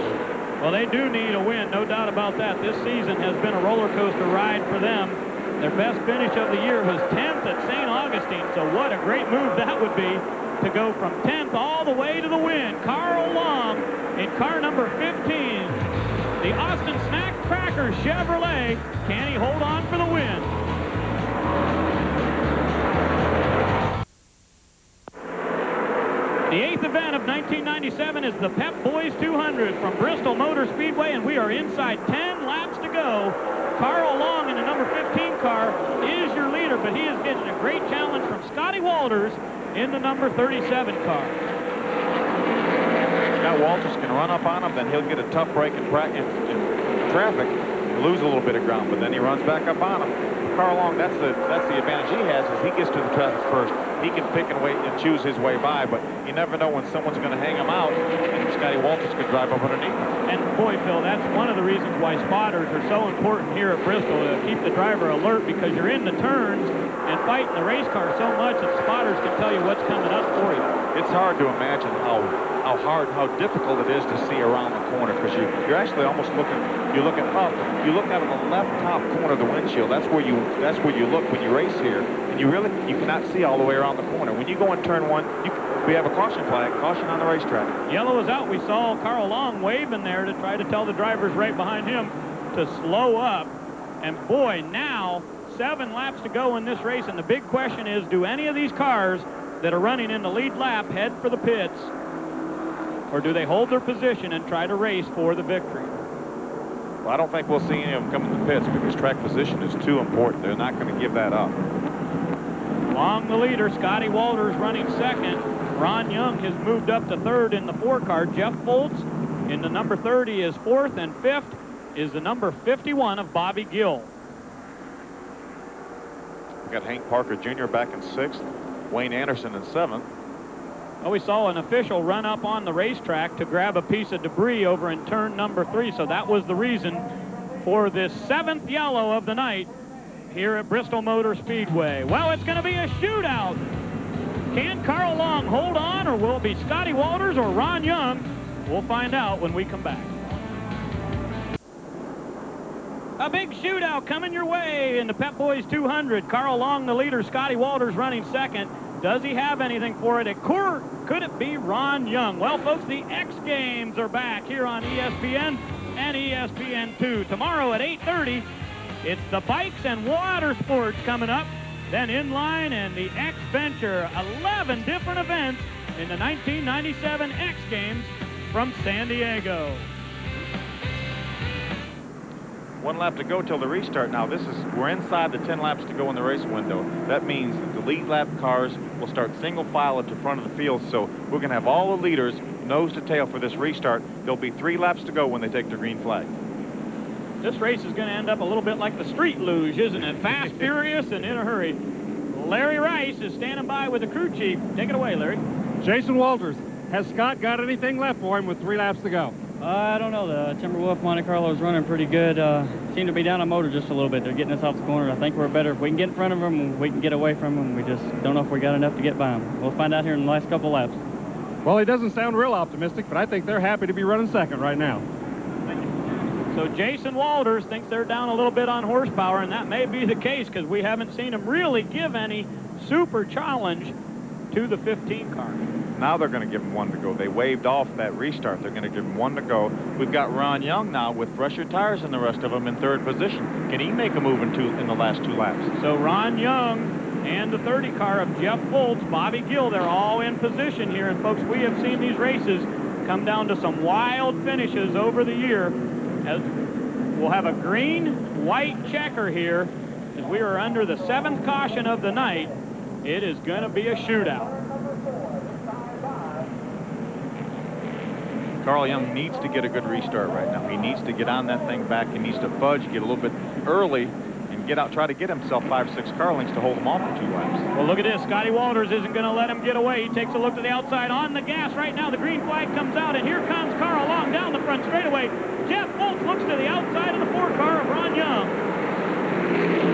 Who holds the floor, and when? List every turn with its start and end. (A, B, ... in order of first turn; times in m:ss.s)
0:00.6-0:15.8 A
0:16.4-0:20.5 A
0:26.5-0:41.4 A
0:43.4-1:00.2 B
1:00.3-1:10.8 A
1:10.9-1:27.7 B
1:27.9-1:41.9 A
1:43.1-1:46.0 A
1:47.0-1:51.6 B
1:52.9-2:04.1 A
2:06.6-2:10.1 B
2:11.0-2:17.0 A
2:17.6-2:19.7 A
2:20.3-2:23.6 A
2:24.5-2:30.1 A
2:33.2-2:48.4 A
2:49.0-2:59.9 A
3:02.8-3:16.3 B
3:17.4-3:21.8 A
3:22.3-3:25.4 A
3:25.8-3:29.3 C
3:29.6-3:41.0 D
3:41.6-3:45.0 C
3:46.5-3:54.0 A
3:54.5-3:55.6 A
3:56.0-4:05.7 B
4:05.8-4:16.5 A
4:17.1-4:24.6 A
4:28.6-4:37.7 B
4:37.7-4:48.6 A